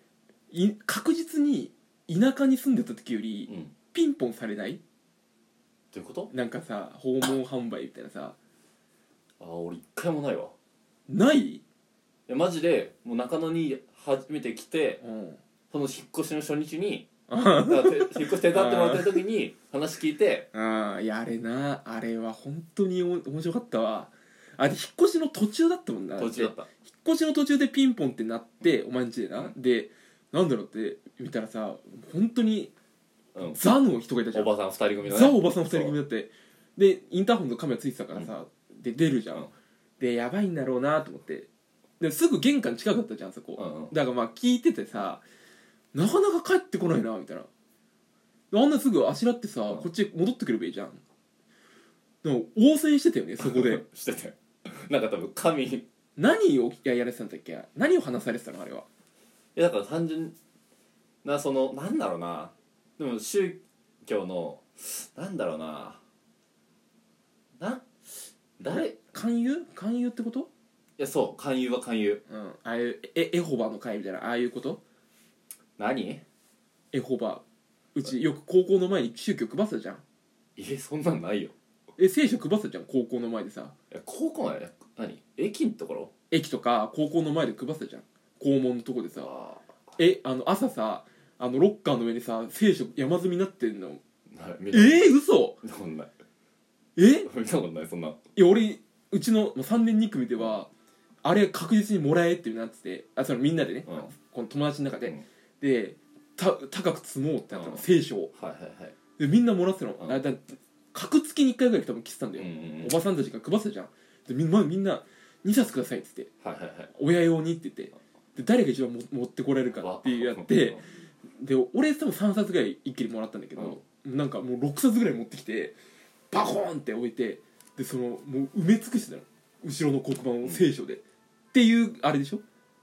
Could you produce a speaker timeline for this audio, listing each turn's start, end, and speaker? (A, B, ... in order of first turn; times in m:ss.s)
0:00.5-0:04.8 A
0:03.5-0:03.7 B
0:05.9-0:06.3 B
0:06.3-0:08.4 A
0:09.4-0:10.5 B
0:11.1-0:11.6 A
0:12.3-0:15.0 B
0:15.0-0:15.4 A
0:15.7-0:17.1 B
0:17.3-0:19.2 A
0:17.6-0:20.5 B
0:20.5-0:32.7 A
0:26.2-0:26.7 B
0:33.3-0:33.6 B
0:33.5-0:34.5 A
0:34.3-0:36.0 B
0:35.0-0:39.5 A
0:40.0-0:41.5 A
0:42.0-0:45.2 A
0:43.6-0:43.9 B
0:45.9-0:47.5 A
0:48.5-0:51.0 A
0:52.2-0:53.8 A
0:53.4-0:55.9 B
0:56.2-0:58.9 A
0:59.6-1:00.3 B
1:01.2-1:06.0 B
1:07.6-1:09.0 B
1:08.7-1:10.5 A
1:11.0-1:12.2 B
1:12.3-1:14.8 A
1:15.8-1:16.2 B
1:16.9-1:17.4 A
1:18.0-1:20.0 A
1:20.6-1:21.5 B
1:22.0-1:23.7 A
1:23.9-1:26.1 B
1:26.3-1:29.3 A
1:29.2-1:29.7 B
1:30.0-1:34.0 A
1:34.3-1:35.1 B
1:34.7-1:35.6 A
1:35.6-1:36.1 B
1:37.0-1:37.3 A
1:37.2-1:38.2 B
1:38.3-1:40.7 A
1:41.2-1:48.3 A
1:43.9-1:44.1 B
1:47.5-1:49.0 B
1:49.2-1:56.3 A
1:52.4-1:53.0 B
1:56.4-1:56.9 B
1:56.9-2:00.8 A
1:59.7-2:00.8 B
2:01.3-2:05.8 A
2:03.6-2:03.8 B
2:06.3-2:11.0 A
2:11.5-2:12.4 A